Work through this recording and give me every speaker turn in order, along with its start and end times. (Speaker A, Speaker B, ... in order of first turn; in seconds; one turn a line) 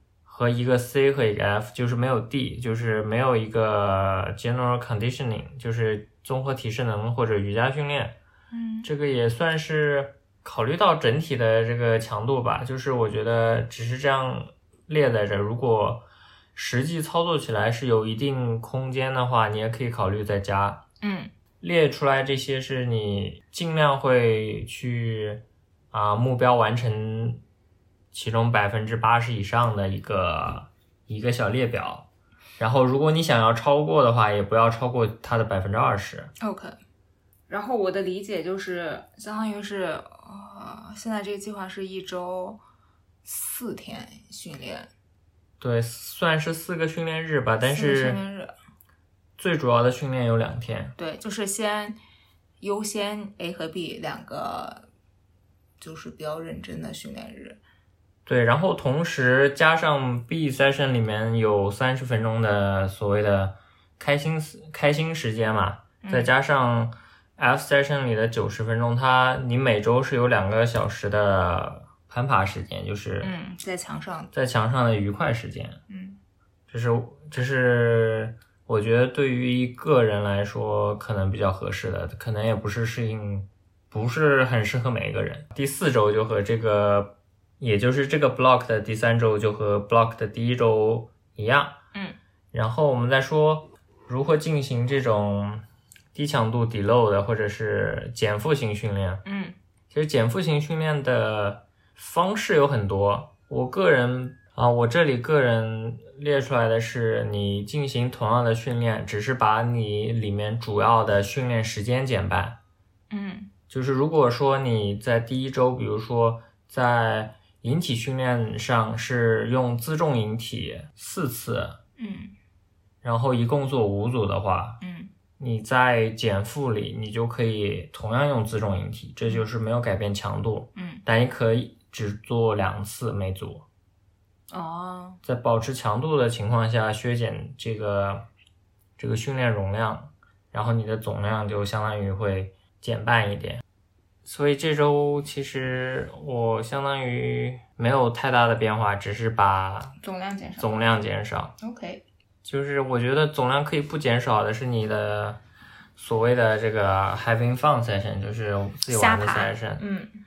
Speaker A: 0.2-8.2
Speaker B: 8.5-8.9
Speaker A: 8.8-20.8
Speaker B: 21.0-21.3
Speaker A: 21.6-27.4
Speaker A: 28.1-32.1
Speaker A: 32.6-36.3
Speaker B: 36.4-36.8
Speaker B: 37.5-42.6
Speaker B: 43.2-44.9
Speaker A: 45.6-48.2
Speaker B: 47.6-48.5
Speaker A: 49.4-50.9
Speaker B: 51.0-52.0
Speaker B: 52.6-54.9
Speaker B: 55.8-57.6
Speaker A: 58.2-73.3
Speaker B: 66.0-66.3
Speaker B: 73.2-74.3
Speaker A: 74.3-75.8
Speaker B: 75.9-76.2
Speaker A: 76.7-91.8
Speaker A: 92.5-99.2
Speaker B: 99.2-99.5
Speaker A: 99.9-112.6
Speaker B: 113.1-113.5
Speaker A: 113.7-121.8
Speaker B: 122.0-122.3
Speaker A: 123.0-124.8
Speaker B: 124.8-125.1
Speaker A: 125.4-133.6
Speaker B: 130.8-131.0
Speaker B: 134.5-135.2
Speaker A: 135.2-138.3
Speaker A: 139.0-143.6
Speaker A: 144.2-150.0
Speaker B: 150.0-150.8
Speaker A: 150.6-151.6
Speaker B: 151.6-152.0
Speaker A: 152.4-155.4
Speaker A: 155.9-159.8
Speaker B: 158.9-160.1